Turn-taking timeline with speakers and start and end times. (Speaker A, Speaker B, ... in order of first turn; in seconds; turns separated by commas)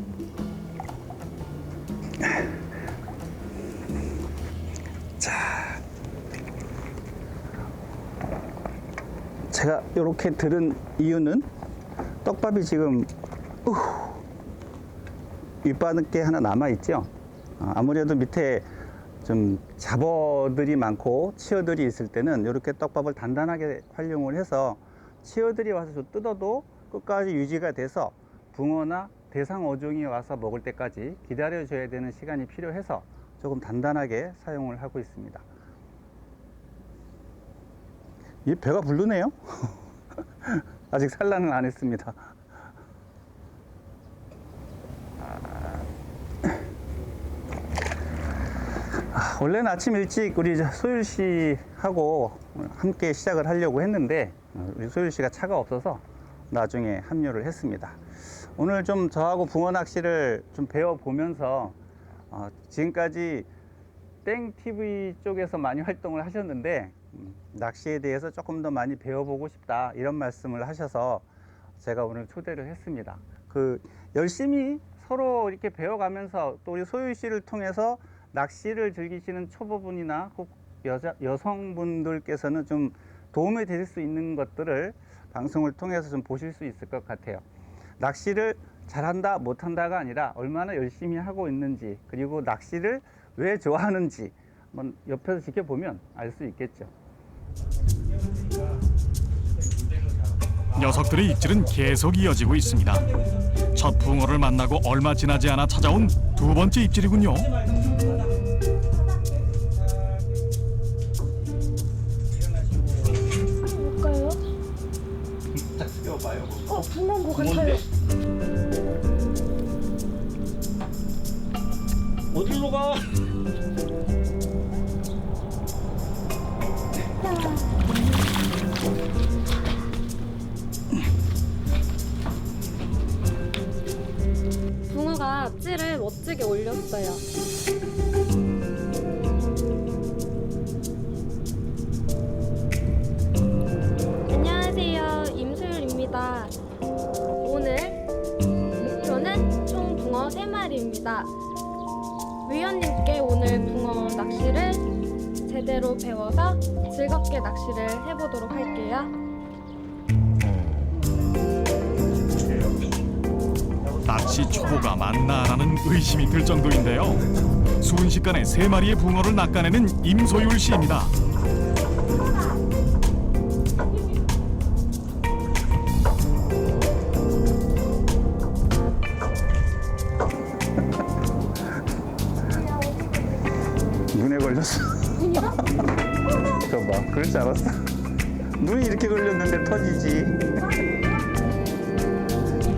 Speaker A: 5.2-5.8, Speaker A: 9.5-11.5, Speaker A: 12.2-13.1, Speaker A: 13.6-14.2, Speaker A: 15.6-18.7, Speaker A: 19.2-35.5, Speaker A: 38.4-39.8, Speaker A: 40.4-42.3, Speaker A: 45.2-45.8, Speaker A: 49.1-58.0, Speaker A: 58.5-61.8, Speaker A: 62.3-63.5, Speaker A: 64.2-71.2, Speaker A: 71.8-87.4, Speaker A: 88.0-96.9, Speaker B: 100.7-107.5, Speaker A: 112.6-113.2, Speaker C: 113.6-114.4, Speaker A: 115.7-116.7, Speaker C: 116.7-117.8, Speaker A: 117.3-117.8, Speaker A: 122.3-123.1, Speaker C: 127.2-127.9, Speaker C: 134.9-137.2, Speaker C: 144.3-146.6, Speaker C: 147.4-148.0, Speaker C: 148.8-151.3, Speaker C: 152.4-154.8, Speaker C: 155.4-159.1, Speaker B: 164.0-167.3, Speaker B: 167.8-171.1, Speaker C: 182.5-183.6, Speaker A: 184.1-185.5, Speaker A: 186.5-187.8, Speaker A: 188.6-190.5